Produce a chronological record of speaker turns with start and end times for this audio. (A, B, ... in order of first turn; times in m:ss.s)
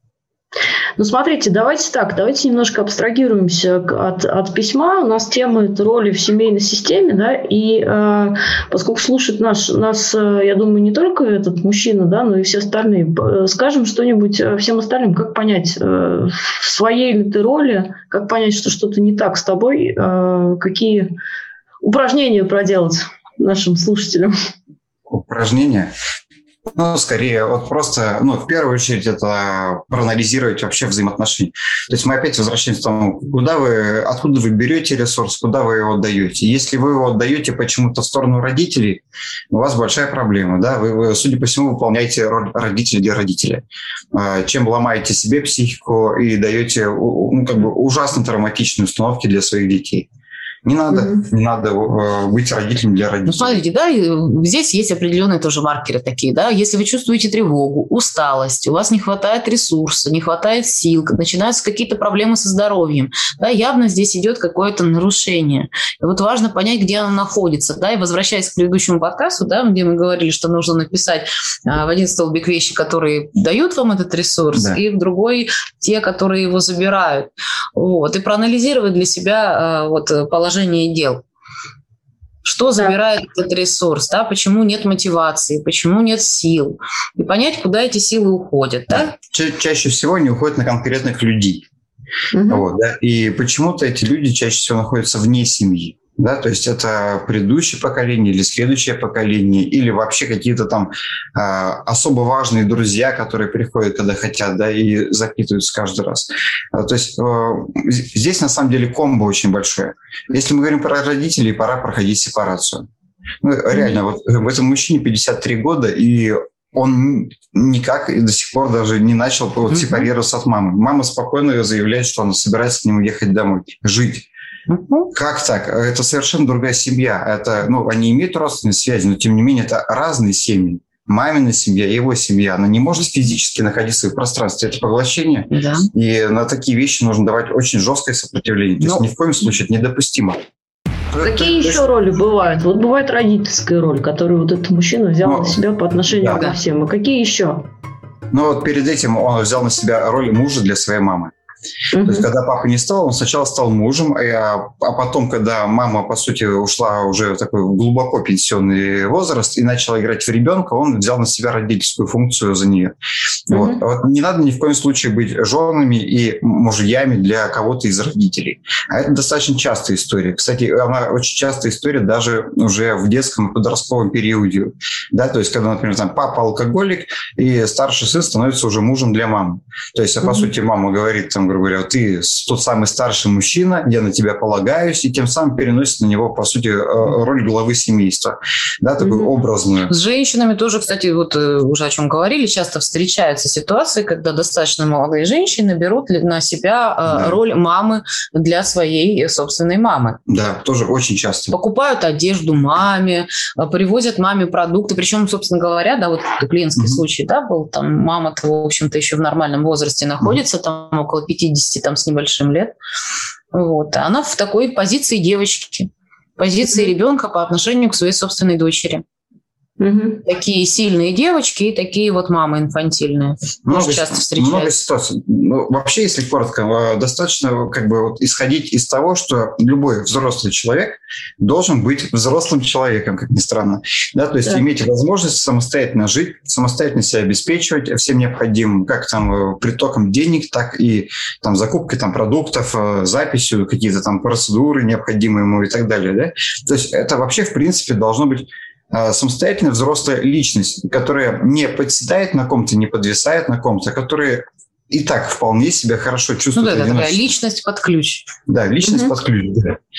0:01.0-0:21.1 A
0:21.8-0:24.3 A
0:25.1-0:25.9 B
0:26.7-0:50.1 B
0:50.6-0:53.6 B
0:50.9-0:51.2 A
0:53.3-1:21.2 C
1:14.5-1:14.8 B
1:22.4-1:29.1 C
1:28.9-1:31.6 B
1:32.3-1:32.7 A
1:32.5-1:52.8 B
1:53.4-2:04.2 B
1:59.7-2:00.1 C
2:04.7-2:05.1 C
2:05.1-2:20.4 B
2:15.5-2:15.9 C
2:21.2-2:27.6 A
2:21.2-2:21.5 B
2:25.2-2:25.6 B
2:26.1-2:26.4 B
2:28.3-2:31.3 B
2:31.9-2:32.3 A
2:32.0-2:42.9 B
2:43.5-3:09.9 B
2:43.5-2:43.8 A
3:00.2-3:00.5 A
3:09.0-3:09.3 A
3:09.9-3:20.2 C
3:17.1-3:17.4 B
3:20.3-3:21.5 B
3:21.5-3:32.7 C
3:26.8-3:27.0 B
3:33.5-3:39.0 C
3:39.8-3:40.2 A
3:40.2-3:44.8 C
3:43.6-4:17.3 B
4:16.5-4:18.3 C
4:18.5-4:19.8 B
4:18.8-4:19.1 A